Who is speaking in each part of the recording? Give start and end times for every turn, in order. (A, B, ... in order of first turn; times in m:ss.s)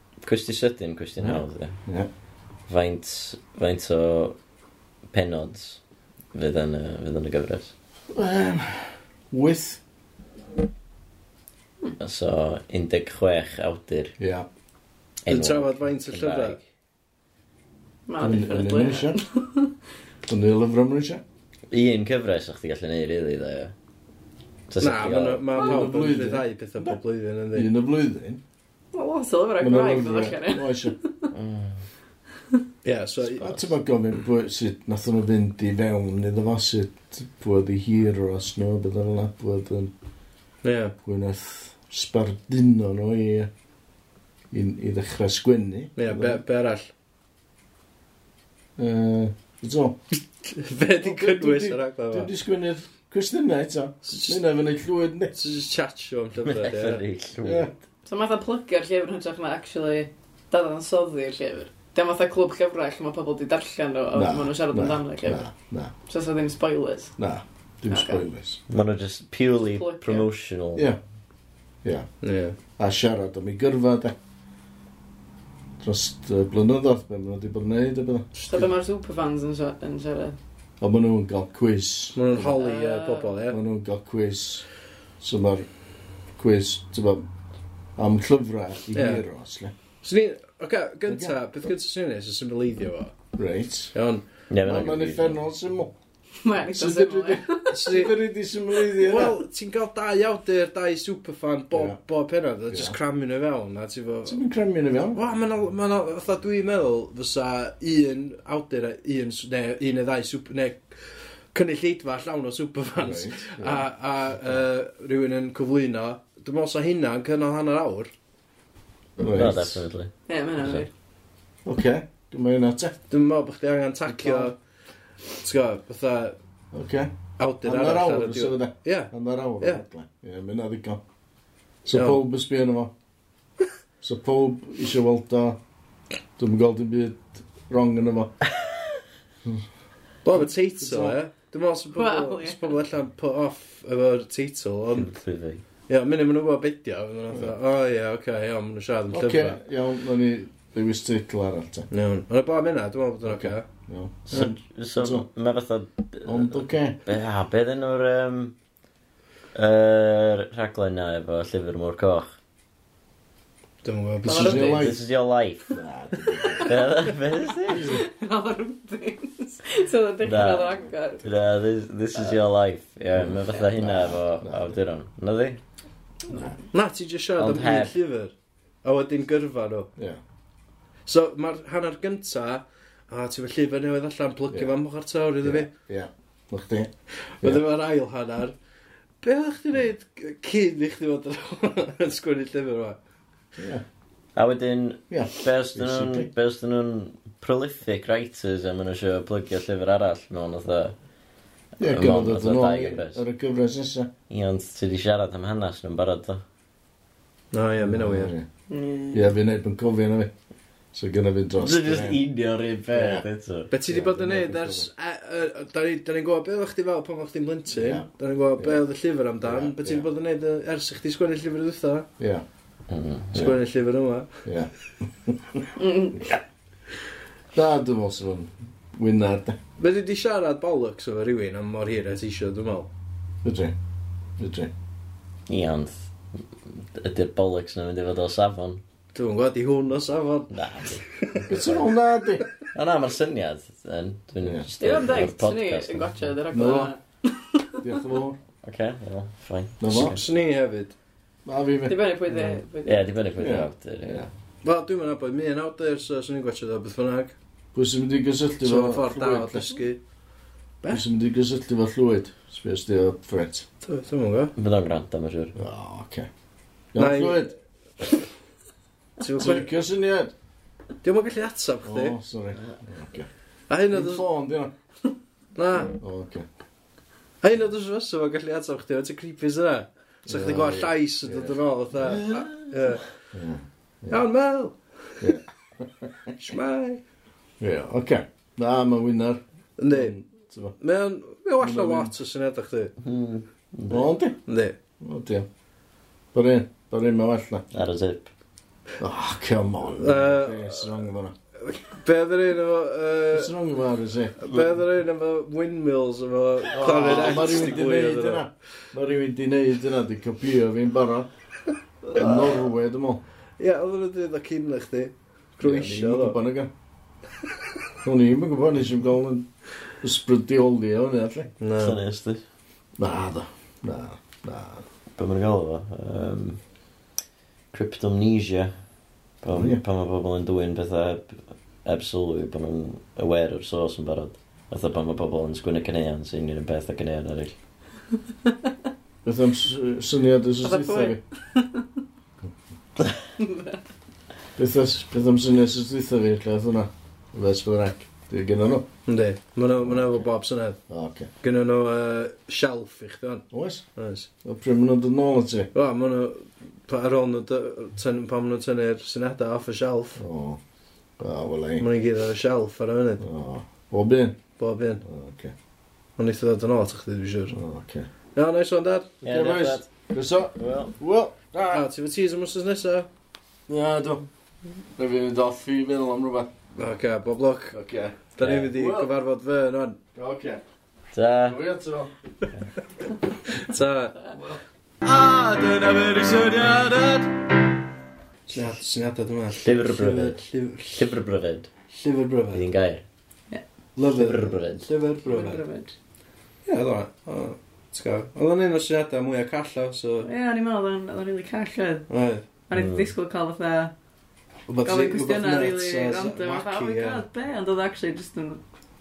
0:00.2-0:01.8 A
0:01.2-0:02.1 B
0:02.7-0:04.4 A
0:05.1-0:05.8 A
0:06.3-0:07.7 A
0:08.1-0:09.8 B
0:12.0-0:14.1 A
0:14.2-0:14.5 B
0:15.3-0:16.6 A
0:15.3-0:16.6 C
0:18.1-0:19.7 D
0:18.2-0:19.2 B
0:20.3-0:21.2 B
0:21.7-0:23.7 A
0:24.7-0:25.5 A
0:24.8-0:27.7 C
0:25.6-0:27.0 B
0:27.5-0:28.4 B
0:28.9-0:31.3 D
0:29.6-0:31.0 B
0:31.3-0:31.8 A
0:32.8-0:33.7 C
0:33.2-0:39.9 B
0:40.6-0:41.0 C
0:41.0-0:43.5 B
0:44.5-0:46.4 B
0:46.0-0:46.9 C
0:48.8-0:50.0 B
0:50.6-0:52.3 C
0:51.0-0:55.4 B
0:54.1-0:54.4 C
0:55.4-0:57.0 C
0:56.4-0:57.8 A
0:57.4-0:57.7 B
0:58.1-1:05.4 D
1:04.1-1:05.9 B
1:06.1-1:07.2 D
1:07.2-1:08.6 B
1:07.9-1:08.2 D
1:08.7-1:10.9 A
1:09.8-1:10.3 D
1:12.2-1:12.6 C
1:12.8-1:14.2 B
1:15.8-1:18.7 B
1:18.4-1:20.4 D
1:20.8-1:22.6 B
1:22.2-1:23.6 C
1:22.4-1:23.4 D
1:23.5-1:24.7 B
1:25.2-1:25.7 B
1:26.4-1:27.3 B
1:28.0-1:29.7 B
1:29.0-1:29.2 C
1:30.0-1:33.2 C
1:31.1-1:31.4 B
1:33.3-1:34.0 B
1:33.9-1:34.2 C
1:34.5-1:35.4 A
1:34.6-1:35.9 B
1:36.4-1:38.0 D
1:36.7-1:39.4 B
1:37.7-1:38.2 C
1:38.9-1:44.4 C
1:41.7-1:42.0 B
1:42.7-1:43.0 B
1:44.2-1:45.2 B
1:45.1-1:50.9 C
1:51.5-1:58.1 C
1:53.0-1:54.6 B
1:59.2-1:59.8 B
1:59.3-2:00.8 A
2:00.3-2:00.9 D
2:01.6-2:03.0 B
2:03.1-2:04.6 C
2:04.1-2:04.5 B
2:05.4-2:06.4 C
2:06.7-2:07.1 B
2:07.4-2:09.8 C
2:07.6-2:11.0 B
2:11.8-2:12.9 B
2:11.9-2:12.2 C
2:14.0-2:15.6 B
2:16.4-2:18.3 B
2:20.2-2:25.2 C
2:20.3-2:21.2 B
2:21.9-2:22.8 D
2:24.9-2:25.6 A
2:25.9-2:29.6 C
2:29.1-2:31.9 B
2:31.9-2:33.6 C
2:33.2-2:35.3 B
2:34.4-2:38.5 A
2:36.2-2:37.0 B
2:39.5-2:42.3 A
2:43.8-2:44.9 C
2:44.2-2:45.0 B
2:44.3-2:44.8 D
2:44.4-2:45.7 A
2:45.7-2:46.8 B
2:46.6-2:48.0 A
2:47.7-2:51.2 D
2:47.7-2:48.0 B
2:50.2-2:55.6 A
2:53.2-2:54.8 B
2:56.3-2:56.6 B
2:56.7-2:58.3 C
2:57.4-2:58.0 A
2:58.8-2:59.9 C
3:01.1-3:05.7 C
3:04.5-3:04.7 B
3:05.4-3:07.6 B
3:07.4-3:08.6 C
3:09.2-3:13.0 C
3:13.6-3:13.8 B
3:14.4-3:21.0 A
3:15.1-3:16.3 B
3:21.8-3:23.2 A
3:21.8-3:24.1 B
3:24.3-3:26.4 A
3:27.5-3:28.3 C
3:27.8-3:28.5 B
3:28.7-3:29.3 D
3:29.1-3:30.3 B
3:30.9-3:32.2 B
3:31.6-3:33.7 A
3:32.9-3:33.2 B
3:33.7-3:42.1 C
3:33.9-3:34.9 B
3:37.7-3:38.1 B
3:39.4-3:40.1 B
3:42.2-3:42.4 B
3:42.9-3:43.6 A
3:43.3-3:44.3 C
3:44.4-3:45.7 B
3:45.8-3:46.4 D
3:47.5-3:49.6 B
3:49.8-3:52.9 C
3:53.4-3:53.8 B
3:54.4-3:54.7 B
3:55.5-3:58.8 A
3:59.1-4:00.5 C
4:00.5-4:01.9 A
4:01.5-4:02.4 B
4:02.7-4:06.3 A
4:04.8-4:08.0 D
4:06.5-4:06.9 B
4:07.8-4:08.4 B
4:08.6-4:10.2 A
4:09.8-4:10.2 B
4:09.9-4:11.0 C
4:11.5-4:12.6 B
4:11.9-4:13.1 D
4:12.8-4:14.3 A
4:13.4-4:14.3 B
4:14.6-4:17.4 C
4:17.7-4:19.8 B
4:18.6-4:20.0 C
4:20.9-4:23.7 B
4:23.8-4:24.5 C
4:24.6-4:25.6 A
4:25.6-4:26.3 B
4:26.9-4:27.5 B
4:27.0-4:27.5 C
4:29.2-4:29.7 C
4:29.4-4:30.3 B
4:31.0-4:32.1 C
4:31.8-4:33.3 B
4:33.7-4:34.2 C
4:33.9-4:34.7 B
4:35.6-4:36.0 C
4:35.9-4:36.5 B
4:37.4-4:43.0 C
4:40.3-4:42.4 B
4:43.3-4:44.2 B
4:44.1-4:45.3 C
4:45.2-4:46.3 B
4:46.4-4:47.0 C
4:47.6-4:50.8 B
4:49.8-4:50.2 C
4:50.8-4:52.9 C
4:51.6-4:52.2 B
4:53.0-4:54.1 A
4:53.9-4:54.4 B
4:54.5-4:54.8 C
4:55.0-4:55.5 B
4:56.3-4:57.6 B
4:57.7-4:58.3 A
4:59.0-5:01.3 B
4:59.9-5:01.0 C
5:01.6-5:03.5 C
5:03.3-5:04.4 B
5:04.4-5:08.4 C
5:06.7-5:11.3 B
5:06.9-5:07.4 A
5:12.1-5:13.2 B
5:12.2-5:12.6 C
5:13.6-5:16.4 C
5:15.6-5:16.7 B
5:18.0-5:19.5 B
5:20.0-5:21.5 B
5:21.6-5:22.0 C
5:21.8-5:22.4 A
5:23.0-5:24.8 B
5:25.2-5:26.6 A
5:27.7-5:28.7 A
5:29.4-5:37.6 A
5:29.5-5:29.8 B
5:39.2-5:41.2 B
5:40.6-5:41.9 D
5:43.4-5:43.8 D
5:44.6-5:48.9 B
5:49.1-5:50.8 C
5:49.8-5:50.2 B
5:50.9-5:51.3 B
5:51.4-5:54.3 C
5:53.5-5:53.8 B
5:54.4-5:55.7 B
5:55.7-6:00.2 C
6:00.2-6:00.6 B
6:01.2-6:01.9 B
6:01.8-6:03.2 C
6:03.2-6:04.4 B
6:04.6-6:05.0 C
6:05.0-6:05.5 B
6:06.2-6:07.6 C
6:07.5-6:08.1 B
6:08.4-6:09.2 C
6:09.2-6:09.9 A
6:09.2-6:11.9 B
6:10.6-6:10.9 A
6:11.7-6:13.1 C
6:13.7-6:14.3 B
6:15.0-6:16.5 B
6:16.8-6:17.8 C
6:17.7-6:19.1 B
6:18.4-6:20.0 C
6:18.4-6:18.7 A
6:20.2-6:20.6 B
6:21.1-6:21.6 A
6:21.4-6:22.1 B
6:23.5-6:24.4 C
6:25.0-6:27.4 C
6:28.5-6:31.2 C
6:29.6-6:30.4 A
6:30.9-6:31.7 A
6:31.9-6:32.7 C
6:32.5-6:33.0 A
6:34.0-6:35.6 C
6:34.1-6:34.9 A
6:35.2-6:35.9 D
6:36.7-6:40.3 C
6:40.2-6:42.1 D
6:42.1-6:42.4 C
6:42.7-6:43.9 D
6:42.7-6:43.1 A
6:44.7-6:47.2 C
6:44.8-6:48.6 D